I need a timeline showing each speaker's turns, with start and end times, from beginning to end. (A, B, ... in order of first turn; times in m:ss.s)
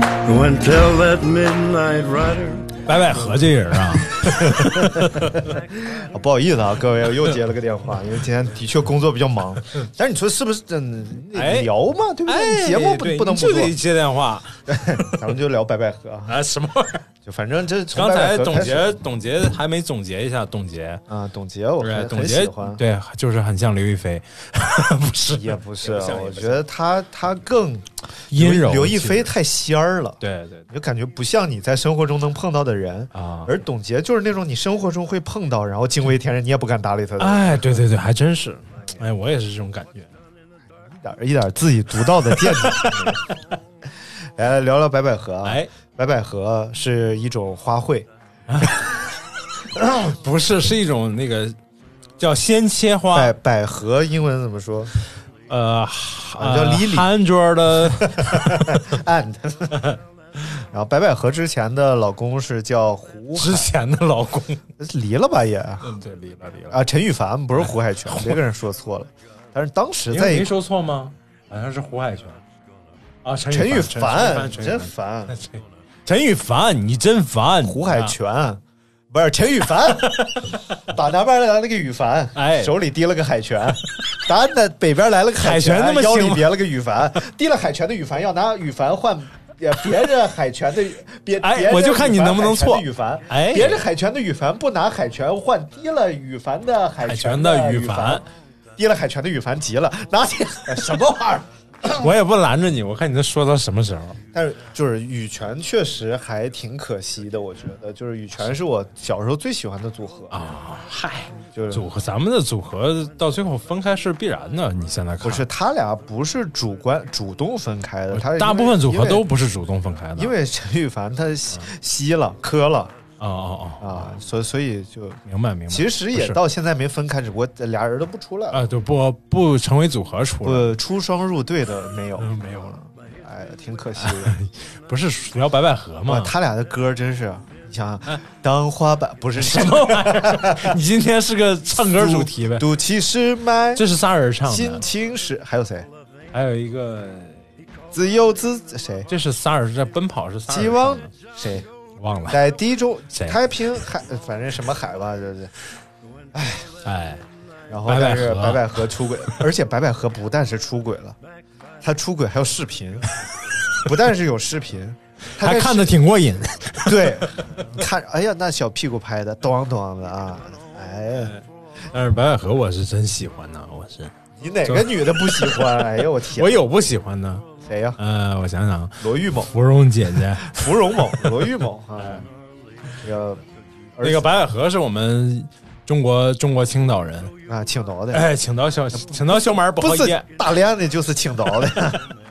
0:00.2-0:02.8 A
0:02.8-0:05.5 B
0:04.2-0:13.8 C
0:11.3-0:11.7 B
0:12.2-0:14.5 B
0:14.7-0:16.3 C
0:16.3-0:17.0 B
0:17.2-0:18.9 C
0:17.9-0:21.0 B
0:21.1-0:22.8 C
0:21.8-0:26.6 B
0:25.3-0:37.8 C
0:28.3-0:29.3 B
0:30.2-0:30.7 B
0:33.1-0:33.5 B
0:37.2-0:40.1 B
0:40.8-0:43.3 C
0:42.4-0:43.1 B
0:44.4-0:48.1 C
0:45.4-0:45.7 B
0:48.5-0:49.0 B
0:49.7-0:51.6 B
0:52.2-0:53.3 B
0:53.1-0:54.9 C
0:55.5-0:58.8 B
0:56.4-0:57.1 C
0:57.9-0:59.8 C
0:59.7-1:00.0 B
1:00.6-1:03.7 C
1:03.3-1:04.6 B
1:04.8-1:05.9 C
1:05.8-1:06.8 B
1:06.7-1:10.5 C
1:07.6-1:08.4 B
1:10.1-1:12.4 B
1:13.2-1:18.1 B
1:13.5-1:15.4 C
1:17.6-1:38.2 C
1:22.3-1:22.8 B
1:25.4-1:26.6 B
1:31.4-1:33.8 B
1:37.0-1:38.2 B
1:38.8-1:42.1 C
1:41.9-1:44.2 B
1:44.3-1:50.4 C
1:50.3-1:55.5 B
1:51.4-1:51.8 C
1:55.2-1:59.2 C
1:58.1-2:00.3 B
2:00.2-2:02.9 C
2:03.2-2:04.1 B
2:03.8-2:08.7 C
2:05.3-2:06.4 B
2:08.5-2:10.7 B
2:10.4-2:14.4 C
2:12.2-2:12.8 B
2:14.0-2:16.3 B
2:16.1-2:20.8 C
2:19.4-2:22.7 B
2:21.8-2:23.8 C
2:23.7-2:24.8 B
2:24.4-2:25.9 C
2:26.3-2:27.4 B
2:27.9-2:29.1 C
2:29.1-2:31.1 B
2:30.5-2:31.7 C
2:32.0-2:32.4 B
2:32.3-2:35.5 C
2:33.1-2:33.4 B
2:36.3-2:36.7 C
2:36.8-2:37.2 B
2:37.7-2:41.2 C
2:37.9-2:39.3 B
2:41.8-2:43.0 C
2:43.8-2:46.0 C
2:45.4-2:47.6 B
2:46.8-2:51.3 C
2:51.1-2:54.1 B
2:54.4-2:56.6 C
2:54.6-2:57.4 B
2:57.6-2:58.0 C
2:58.0-3:01.5 B
2:59.0-2:59.5 C
3:00.3-3:02.3 C
3:02.0-3:02.3 B
3:03.0-3:03.4 C
3:04.0-3:04.3 C
3:04.0-3:07.3 B
3:07.5-3:08.3 C
3:08.1-3:10.3 B
3:09.3-3:12.1 C